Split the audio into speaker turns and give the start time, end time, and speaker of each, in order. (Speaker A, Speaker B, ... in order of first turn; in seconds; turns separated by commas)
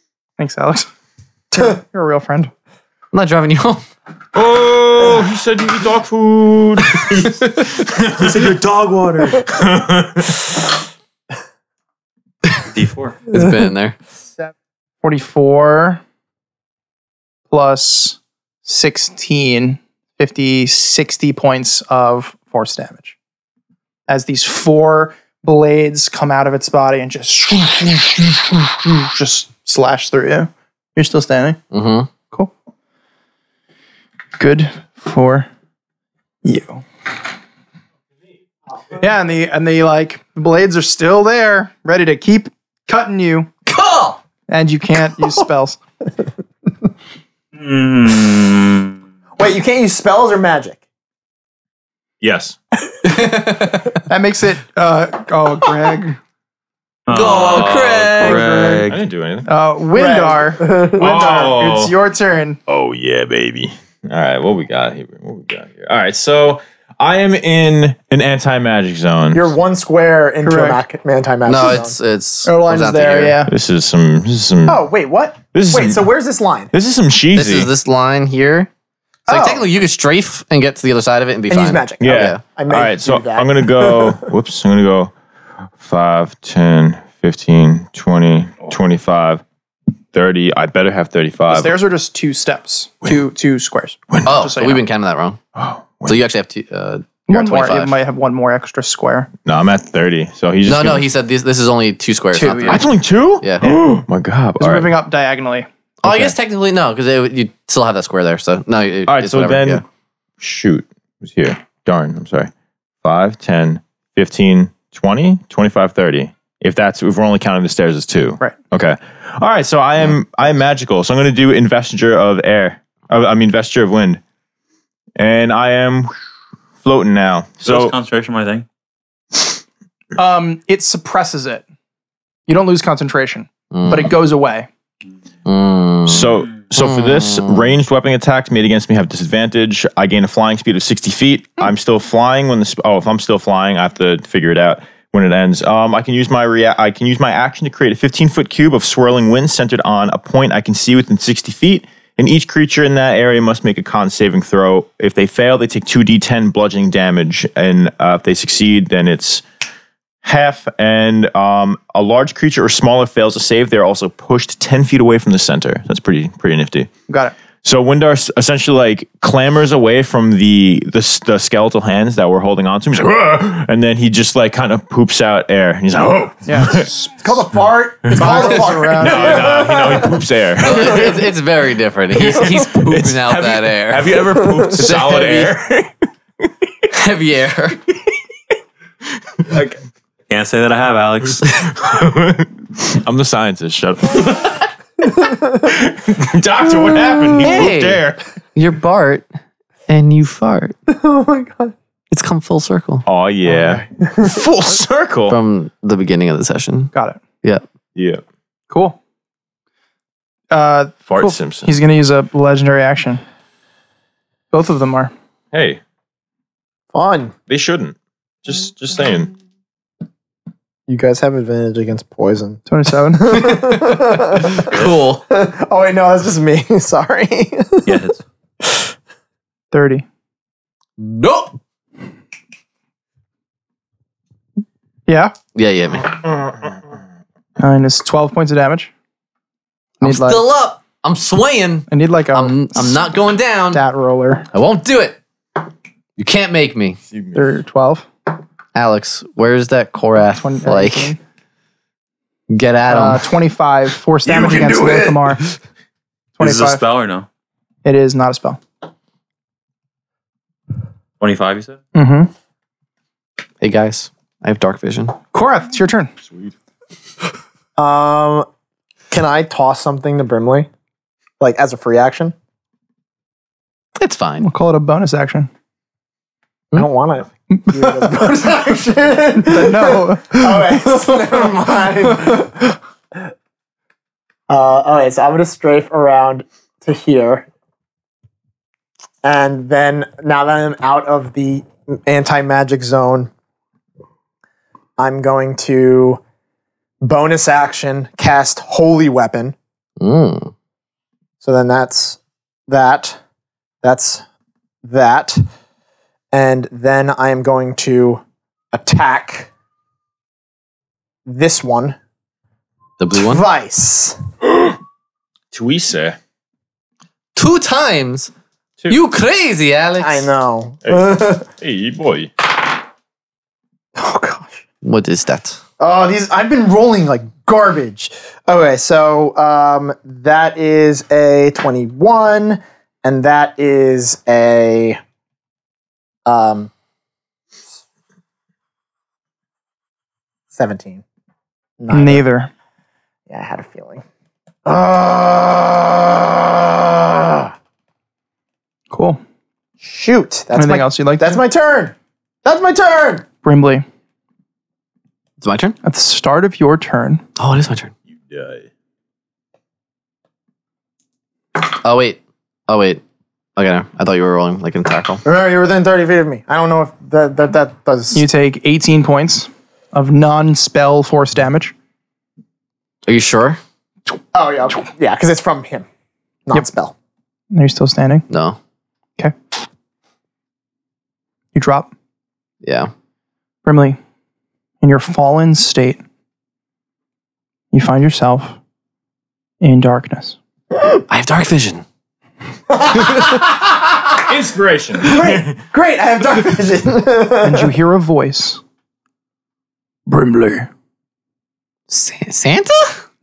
Speaker A: 0.4-0.9, Speaker A: 1.5-2.5, Speaker B: 3.1-3.8, Speaker C: 4.3-8.6, Speaker C: 9.3-10.4, Speaker D: 12.7-13.2, Speaker B: 13.3-14.0, Speaker A: 15.0-16.0, Speaker A: 17.5-23.2, Speaker A: 24.1-31.6, Speaker B: 31.7-32.1, Speaker A: 34.4-35.5, Speaker A: 36.4-36.8, Speaker A: 38.9-43.5, Speaker B: 43.7-44.2, Speaker A: 44.5-45.8, Speaker D: 47.5-49.0, Speaker E: 49.4-50.8, Speaker C: 52.2-52.6, Speaker B: 53.1-53.9, Speaker A: 54.1-56.2, Speaker D: 57.1-59.0, Speaker B: 57.1-58.5, Speaker A: 58.2-58.9, Speaker C: 58.9-59.5, Speaker A: 59.5-62.6, Speaker E: 59.9-61.5, Speaker C: 61.0-61.9, Speaker C: 62.7-69.5, Speaker E: 69.3-72.0, Speaker A: 70.4-70.8, Speaker B: 71.5-73.5, Speaker A: 72.5-73.5, Speaker C: 73.5-74.8, Speaker E: 74.7-76.7, Speaker C: 75.5-76.0, Speaker C: 76.7-77.7, Speaker B: 77.3-78.7, Speaker E: 79.3-79.7, Speaker B: 79.3-82.4, Speaker E: 81.5-84.3, Speaker C: 82.0-85.1, Speaker C: 85.8-89.4, Speaker C: 90.1-91.8, Speaker A: 91.5-94.8, Speaker B: 94.2-95.4, Speaker C: 95.6-96.2, Speaker B: 96.1-98.0, Speaker A: 97.3-99.3, Speaker C: 99.5-101.1, Speaker B: 100.7-102.9, Speaker A: 102.3-102.8, Speaker C: 102.7-104.9, Speaker B: 103.4-103.8, Speaker A: 104.6-105.7, Speaker B: 106.0-109.8, Speaker C: 106.0-106.3, Speaker C: 109.1-109.8, Speaker C: 110.4-112.5, Speaker C: 113.0-124.2, Speaker C: 125.2-126.2, Speaker C: 126.8-128.0, Speaker D: 127.6-128.7, Speaker A: 130.2-131.7, Speaker A: 132.5-134.7, Speaker B: 133.7-134.1, Speaker B: 135.5-137.6, Speaker C: 136.1-159.4, Speaker C: 160.2-166.9, Speaker A: 167.1-167.3, Speaker C: 167.6-176.9, Speaker A: 176.5-177.2, Speaker E: 177.2-181.2, Speaker C: 178.1-181.3, Speaker A: 178.1-179.7, Speaker B: 180.6-185.5, Speaker C: 182.2-185.9, Speaker B: 186.9-187.8, Speaker C: 189.4-189.7, Speaker D: 190.3-191.6, Speaker C: 191.5-194.7, Speaker C: 195.6-198.2, Speaker B: 197.4-198.0, Speaker B: 198.6-199.3, Speaker B: 199.9-200.8, Speaker E: 200.9-201.8, Speaker B: 202.1-203.1, Speaker C: 203.1-205.4, Speaker E: 203.6-204.3, Speaker B: 205.3-206.9, Speaker A: 206.9-207.2, Speaker C: 208.0-208.2, Speaker A: 208.7-209.0, Speaker A: 210.5-213.2, Speaker C: 211.1-211.7, Speaker A: 214.5-215.1, Speaker C: 215.5-215.8, Speaker E: 216.9-217.3, Speaker C: 217.5-219.3, Speaker E: 220.9-228.0, Speaker A: 222.7-223.3, Speaker B: 223.3-225.2, Speaker D: 227.8-228.2, Speaker E: 228.6-228.9, Speaker A: 229.7-230.1, Speaker B: 231.0-231.6, Speaker A: 235.1-235.3, Speaker B: 235.6-236.2, Speaker A: 237.6-238.9, Speaker A: 240.0-240.5, Speaker B: 240.0-243.8, Speaker A: 241.9-243.1, Speaker A: 243.7-244.5, Speaker B: 244.5-245.2, Speaker B: 246.2-247.0, Speaker C: 247.1-247.4, Speaker A: 247.3-248.1, Speaker B: 248.8-251.2, Speaker A: 250.4-251.2, Speaker B: 252.5-253.3, Speaker A: 252.9-255.4, Speaker C: 254.3-254.6, Speaker E: 254.6-255.1, Speaker A: 256.4-256.8, Speaker D: 256.4-257.3, Speaker A: 257.8-258.6, Speaker D: 261.2-261.8, Speaker A: 261.9-262.3, Speaker B: 263.6-265.2, Speaker A: 265.3-266.1, Speaker C: 266.3-266.5, Speaker E: 267.8-268.5, Speaker E: 269.1-270.7, Speaker E: 271.4-272.3, Speaker B: 274.0-274.5, Speaker A: 274.4-275.5, Speaker E: 276.7-282.7, Speaker A: 277.5-278.4, Speaker A: 279.4-282.4, Speaker E: 284.5-287.5, Speaker E: 289.2-293.3, Speaker E: 295.0-296.2, Speaker E: 297.0-299.6, Speaker B: 300.0-300.5, Speaker E: 301.4-303.2, Speaker E: 303.8-304.2, Speaker E: 304.8-305.4, Speaker E: 306.3-309.5, Speaker E: 311.3-312.0, Speaker B: 313.0-313.4, Speaker E: 313.1-314.2, Speaker C: 315.5-316.2, Speaker B: 317.4-318.3, Speaker B: 318.9-320.3, Speaker E: 320.0-321.5, Speaker C: 320.9-322.3, Speaker E: 324.0-324.6, Speaker B: 324.8-325.6, Speaker E: 325.8-335.0, Speaker E: 336.3-336.7, Speaker E: 340.5-341.0, Speaker E: 341.8-342.2, Speaker A: 341.9-342.5, Speaker E: 343.3-344.0, Speaker E: 344.6-347.5, Speaker A: 348.9-349.2, Speaker E: 349.8-353.3, Speaker A: 350.5-351.4, Speaker A: 353.4-353.9, Speaker B: 355.4-355.8, Speaker A: 355.8-357.2, Speaker B: 357.4-357.9, Speaker C: 358.1-358.7, Speaker B: 361.6-363.0, Speaker B: 363.6-365.2, Speaker E: 365.2-368.2, Speaker A: 368.1-371.7, Speaker B: 373.1-373.6, Speaker E: 374.3-375.9, Speaker E: 376.5-376.9, Speaker A: 377.5-378.3, Speaker B: 378.3-378.6, Speaker A: 381.6-381.9, Speaker B: 382.6-382.9, Speaker A: 383.6-384.0, Speaker A: 384.8-386.0, Speaker A: 387.7-388.6, Speaker A: 389.6-390.4, Speaker B: 391.1-391.8, Speaker E: 392.7-393.7, Speaker C: 394.2-395.6, Speaker E: 395.0-397.7, Speaker A: 397.4-398.6, Speaker A: 400.1-400.7, Speaker B: 401.9-403.0